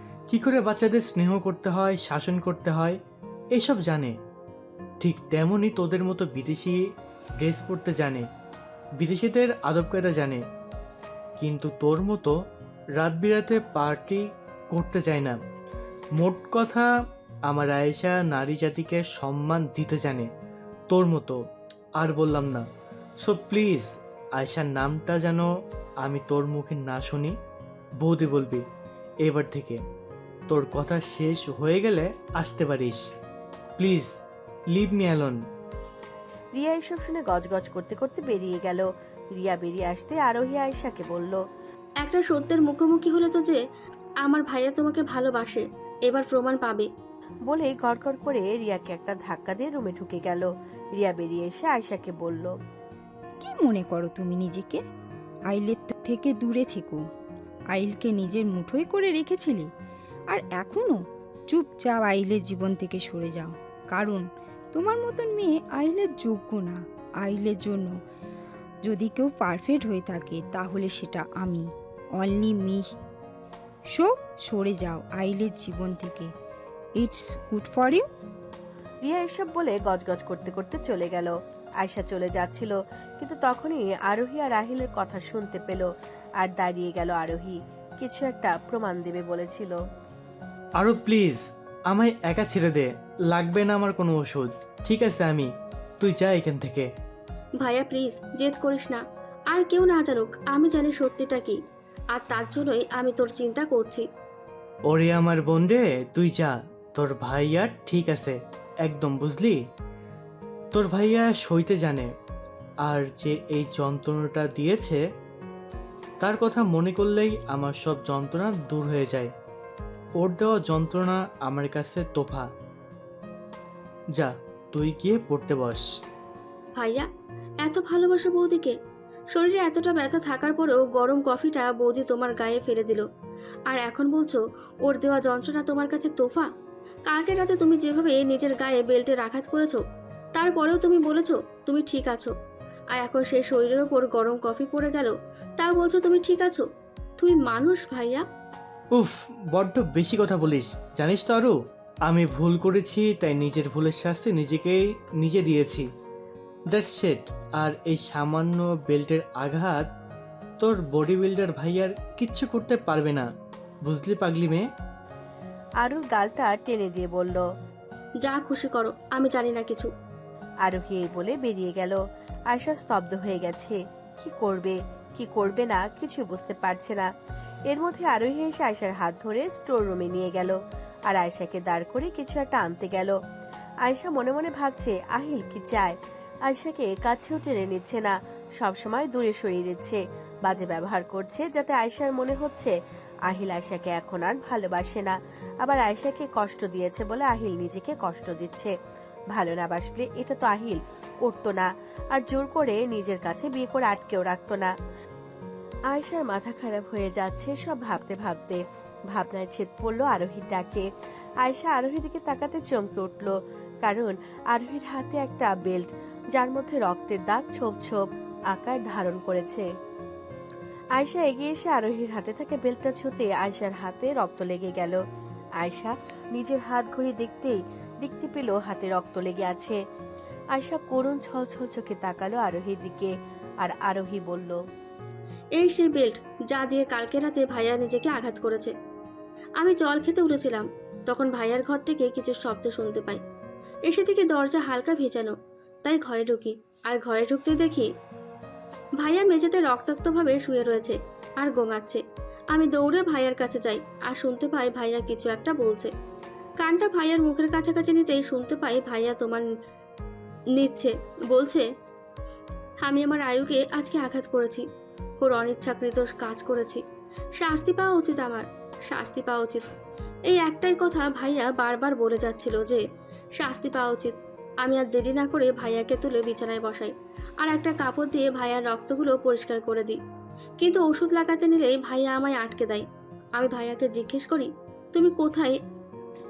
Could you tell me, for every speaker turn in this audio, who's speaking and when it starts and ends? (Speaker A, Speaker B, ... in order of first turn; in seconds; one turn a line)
Speaker A: 0.3-3.0
Speaker A: 3.5-4.1
Speaker A: 5.0-6.8
Speaker A: 7.4-8.2
Speaker A: 9.0-10.4
Speaker A: 11.4-12.3
Speaker A: 12.9-15.4
Speaker A: 16.2-16.9
Speaker A: 17.5-20.3
Speaker A: 20.9-21.4
Speaker A: 22.0-22.6
Speaker A: 23.2-25.5
Speaker A: 26.0-27.4
Speaker A: 28.0-28.6
Speaker A: 29.2-29.8
Speaker A: 30.5-33.0
Speaker A: 33.8-34.1
Speaker A: 34.7-35.4
Speaker B: 36.5-41.4
Speaker C: 42.0-43.6
Speaker C: 44.2-46.9
Speaker B: 47.5-52.5
Speaker D: 53.4-54.8
Speaker D: 55.5-57.0
Speaker D: 57.7-59.7
Speaker D: 60.3-67.9
Speaker D: 68.8-72.8
Speaker D: 73.9-76.3
Speaker D: 77.0-78.1
Speaker B: 79.0-89.8
Speaker A: 90.8-96.9
Speaker C: 97.6-101.6
Speaker C: 102.1-104.0
Speaker A: 104.9-109.6
Speaker A: 110.7-112.1
Speaker A: 112.8-115.0
Speaker A: 116.2-119.3
Speaker A: 120.2-122.5
Speaker A: 124.1-125.8
Speaker C: 126.8-127.0
Speaker C: 127.6-128.7
Speaker C: 129.3-133.0
Speaker C: 133.7-136.5
Speaker C: 137.1-139.8
Speaker C: 140.3-142.3
Speaker C: 142.9-146.6
Speaker C: 147.2-148.2
Speaker A: 148.9-151.5
Speaker A: 152.1-155.9
Speaker A: 156.7-159.9
Speaker A: 160.6-163.3
Speaker A: 163.8-164.7
Speaker B: 165.8-167.4
Speaker C: 168.2-169.9
Speaker B: 170.6-172.0
Speaker B: 172.5-177.1
Speaker B: 177.7-183.2
Speaker B: 183.8-185.9
Speaker B: 186.4-192.7
Speaker B: 193.3-198.7
Speaker B: 199.3-204.7
Speaker B: 205.9-210.8
Speaker B: 211.4-219.7
Speaker B: 220.9-225.0
Speaker B: 225.6-229.8
Speaker B: 230.5-234.6
Speaker C: 235.6-238.7
Speaker C: 239.6-243.2
Speaker C: 243.9-245.3
Speaker C: 245.8-247.9
Speaker C: 249.0-252.0
Speaker C: 252.5-255.9
Speaker C: 256.6-259.4
Speaker C: 260.6-261.6
Speaker C: 262.8-264.6
Speaker C: 265.2-266.8
Speaker C: 267.4-269.6
Speaker C: 270.3-272.8
Speaker C: 273.4-274.1
Speaker C: 274.6-280.0
Speaker C: 280.6-282.8
Speaker C: 283.4-285.5